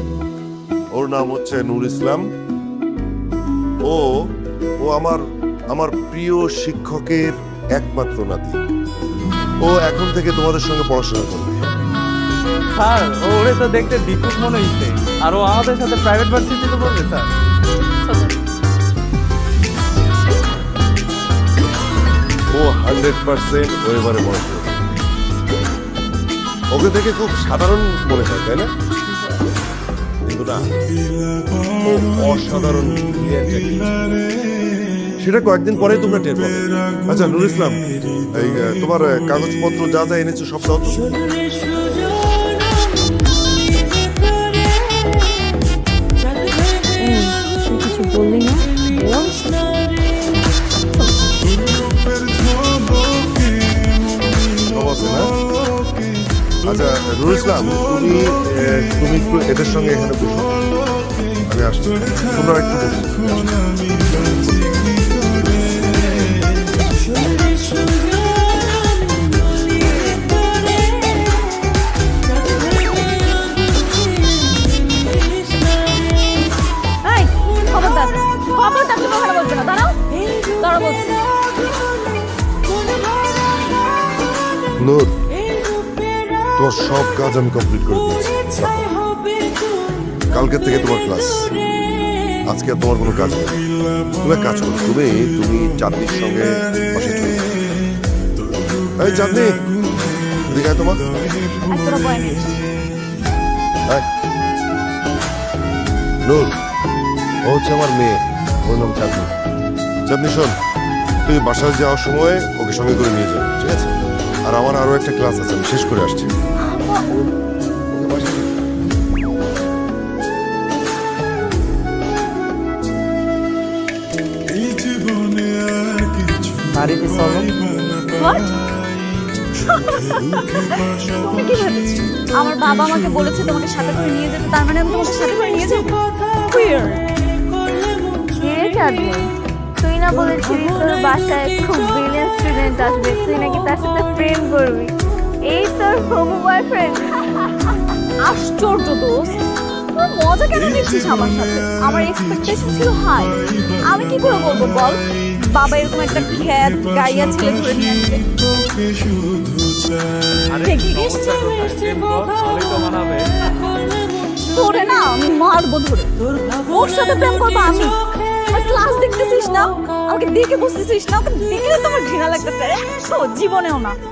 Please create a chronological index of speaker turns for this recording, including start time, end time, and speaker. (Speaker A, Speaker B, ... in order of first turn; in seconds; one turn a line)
Speaker A: 0.9-2.2
Speaker A: 3.8-4.1
Speaker A: 4.8-8.6
Speaker A: 9.6-11.6
Speaker B: 12.8-17.3
Speaker A: 22.5-24.7
Speaker A: 26.7-28.7
Speaker A: 30.2-30.7
Speaker A: 31.8-34.0
Speaker A: 35.2-37.8
Speaker A: 38.3-41.0
Speaker C: 47.0-49.5
Speaker A: 54.7-55.3
Speaker A: 56.6-60.5
Speaker A: 61.5-63.5
Speaker A: 64.2-64.5
Speaker D: 77.0-80.0
Speaker D: 80.6-81.1
Speaker A: 84.8-85.1
Speaker A: 86.6-88.9
Speaker A: 90.3-91.5
Speaker A: 92.5-93.6
Speaker A: 94.2-97.5
Speaker A: 99.0-99.5
Speaker A: 100.5-101.0
Speaker D: 101.7-102.6
Speaker A: 106.3-106.5
Speaker A: 107.5-109.3
Speaker A: 110.1-110.5
Speaker A: 111.2-113.9
Speaker A: 114.5-116.3
Speaker D: 116.6-117.3
Speaker A: 117.9-118.5
Speaker B: 126.7-127.5
Speaker D: 128.1-128.5
Speaker D: 129.7-137.0
Speaker C: 138.4-139.3
Speaker C: 139.8-144.9
Speaker C: 145.5-147.5
Speaker D: 148.2-149.4
Speaker D: 149.9-158.2
Speaker B: 160.5-163.3
Speaker D: 160.6-161.4
Speaker D: 164.5-166.1
Speaker D: 166.7-173.9